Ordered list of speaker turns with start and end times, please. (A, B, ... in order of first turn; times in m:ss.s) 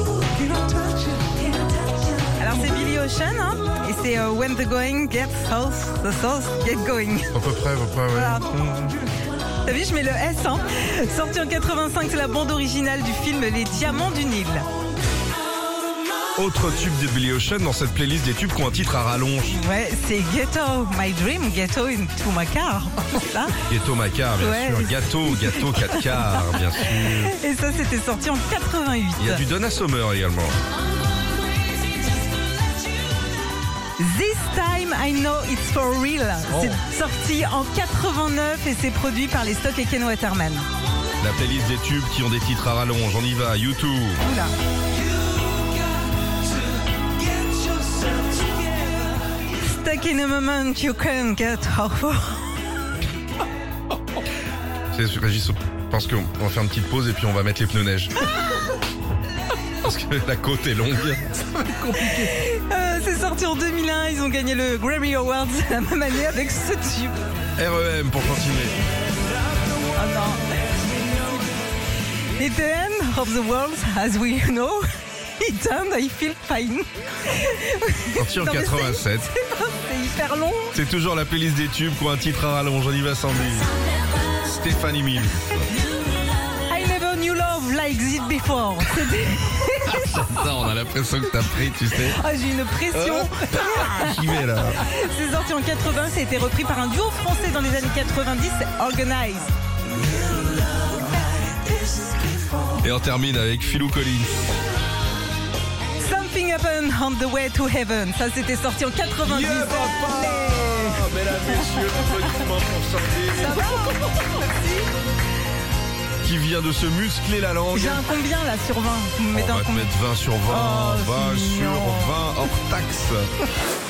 0:00.5-0:01.4 A
0:02.2-0:07.3 A
0:07.3-0:08.9 B
0:08.1-0:08.5 A
0:09.6-0:14.7 A
0:16.4-0:19.6 B
0:19.5-0:23.5 A
0:23.6-0:27.3 B
0:24.4-0:29.4 A
0:29.2-0:30.6 B
0:34.0-0:40.6 A
0:36.5-0:36.8 B
0:41.2-0:44.2 B
0:44.2-0:44.5 A
0:49.6-0:52.6 A
0:54.9-0:58.1 B
0:59.8-1:02.3 B
1:02.0-1:07.2 A
1:07.6-1:08.8 B
1:09.9-1:11.5 A
1:12.4-1:14.8 A
1:15.4-1:20.8 A
1:18.2-1:19.3 B
1:20.7-1:23.7 B
1:24.4-1:25.7 B
1:26.7-1:30.0 A
1:29.8-1:32.2 B
1:32.0-1:39.5 A
1:32.9-1:34.8 B
1:41.0-1:42.6 A
1:42.8-1:44.5 B
1:46.0-1:52.2 A
1:49.2-1:53.9 B
1:53.2-1:54.9 A
1:56.2-1:58.1 B
1:57.7-1:59.9 A
1:59.3-2:03.3 B
2:00.5-2:02.2 A